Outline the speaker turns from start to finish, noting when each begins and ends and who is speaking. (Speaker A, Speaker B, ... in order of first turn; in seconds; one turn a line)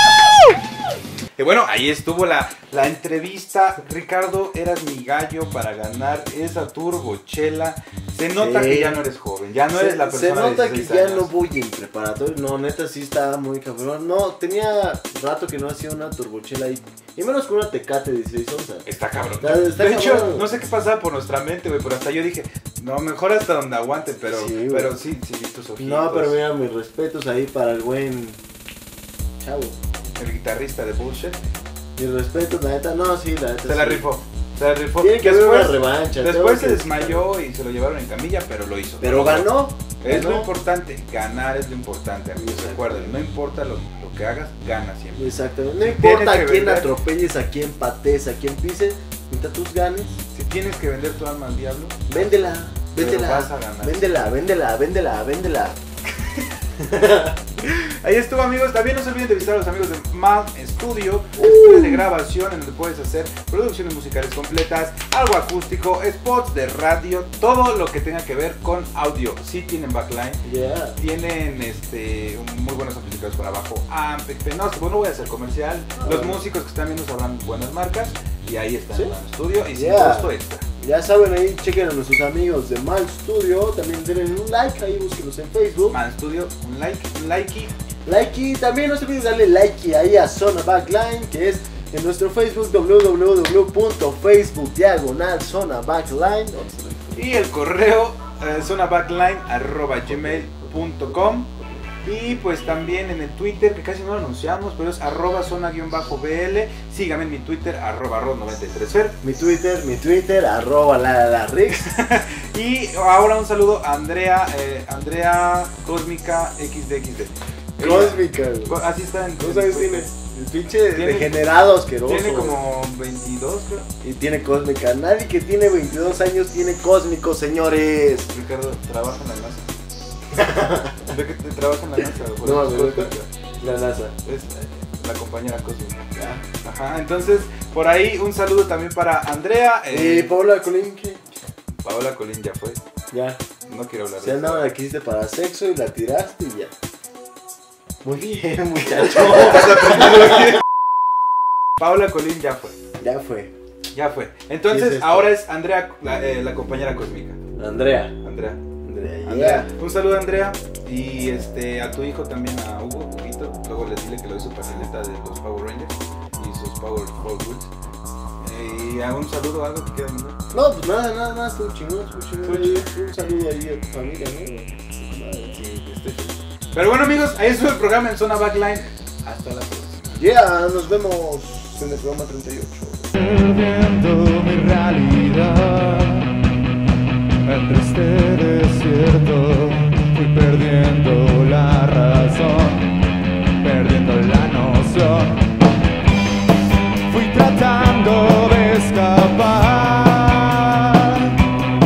Speaker A: 1.4-11.3
Speaker B: 8.3-9.0
Speaker B: 9.7-18.9
Speaker A: 18.9-26.4
Speaker B: 19.4-20.5
Speaker B: 24.3-24.9
Speaker B: 25.8-28.4
Speaker B: 29.4-29.8
Speaker A: 30.1-31.4
Speaker B: 31.9-34.1
Speaker A: 33.6-46.9
Speaker B: 35.0-37.3
Speaker B: 39.0-40.5
Speaker B: 42.3-43.2
Speaker B: 45.1-50.2
Speaker A: 50.3-54.2
Speaker B: 52.1-55.8
Speaker B: 56.8-57.3
Speaker A: 57.6-70.4
Speaker B: 61.4-62.1
Speaker B: 70.4-71.0
Speaker A: 71.0-80.6
Speaker B: 76.0-76.5
Speaker B: 79.7-86.0
Speaker A: 85.9-87.8
Speaker B: 88.0-97.2
Speaker A: 97.1-101.5
Speaker B: 100.1-100.4
Speaker A: 102.0-109.2
Speaker B: 109.2-111.9
Speaker A: 111.8-120.1
Speaker B: 117.8-118.8
Speaker B: 119.4-122.6
Speaker A: 120.9-121.4
Speaker A: 122.0-123.9
Speaker B: 124.0-128.3
Speaker A: 128.3-129.7
Speaker B: 130.3-131.1
Speaker A: 131.1-133.3
Speaker B: 132.4-134.1
Speaker A: 134.2-136.0
Speaker B: 136.1-136.4
Speaker A: 136.6-140.3
Speaker B: 139.9-141.2
Speaker A: 141.8-142.8
Speaker B: 143.1-143.4
Speaker A: 143.7-144.7
Speaker B: 144.2-146.7
Speaker B: 148.0-150.1
Speaker A: 149.2-150.5
Speaker A: 151.8-152.8
Speaker B: 153.0-153.5
Speaker A: 153.9-157.4
Speaker B: 154.7-155.3
Speaker B: 157.6-158.1
Speaker A: 158.2-158.6
Speaker B: 158.8-159.7
Speaker A: 159.2-167.7
Speaker A: 168.4-170.4
Speaker B: 170.5-175.6
Speaker A: 172.4-172.9
Speaker A: 175.5-180.2
Speaker B: 180.2-183.1
Speaker C: 183.2-186.3
Speaker C: 187.4-192.8
Speaker C: 193.6-195.4
Speaker C: 197.1-201.2